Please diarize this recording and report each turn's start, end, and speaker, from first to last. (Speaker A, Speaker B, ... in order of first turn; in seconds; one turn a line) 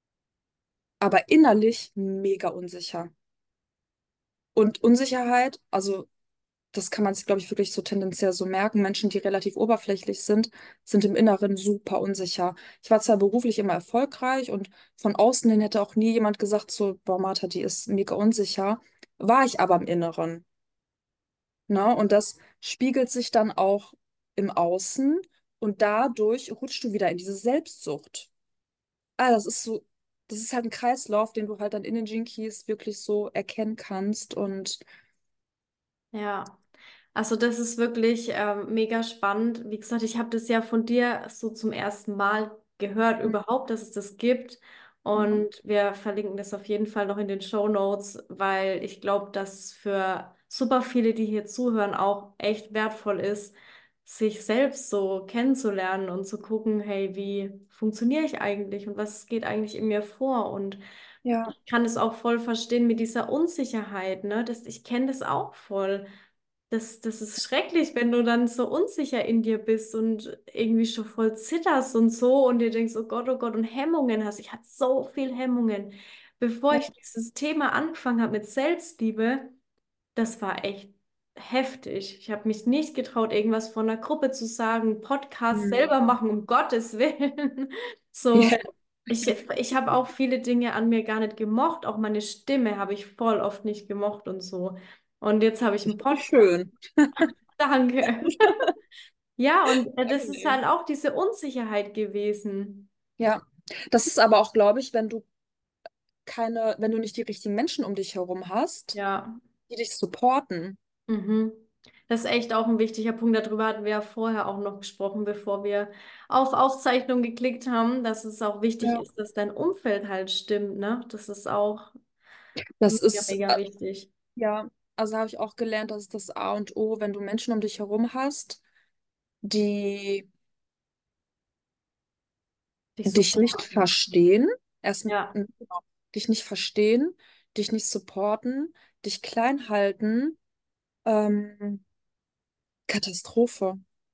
Speaker A: 1.0-3.1
Speaker A: 4.5-6.1
Speaker A: 6.7-20.4
Speaker A: 21.7-28.3
Speaker A: 29.2-34.8
Speaker B: 36.1-36.6
Speaker B: 37.1-60.8
Speaker A: 45.1-45.5
Speaker A: 61.2-61.5
Speaker B: 61.5-66.1
Speaker B: 66.7-79.5
Speaker B: 80.2-88.6
Speaker A: 85.5-85.8
Speaker A: 88.3-88.6
Speaker B: 89.1-96.5
Speaker A: 95.9-97.2
Speaker B: 97.2-98.6
Speaker B: 99.4-102.9
Speaker A: 100.0-100.6
Speaker A: 103.2-105.2
Speaker A: 106.3-109.0
Speaker B: 108.9-109.4
Speaker A: 109.7-110.8
Speaker B: 111.1-121.9
Speaker A: 122.8-123.6
Speaker B: 122.9-124.1
Speaker A: 124.4-128.6
Speaker A: 129.4-130.3
Speaker B: 133.0-133.8
Speaker A: 133.1-140.4
Speaker B: 135.1-135.3
Speaker A: 141.1-141.8
Speaker A: 142.9-143.8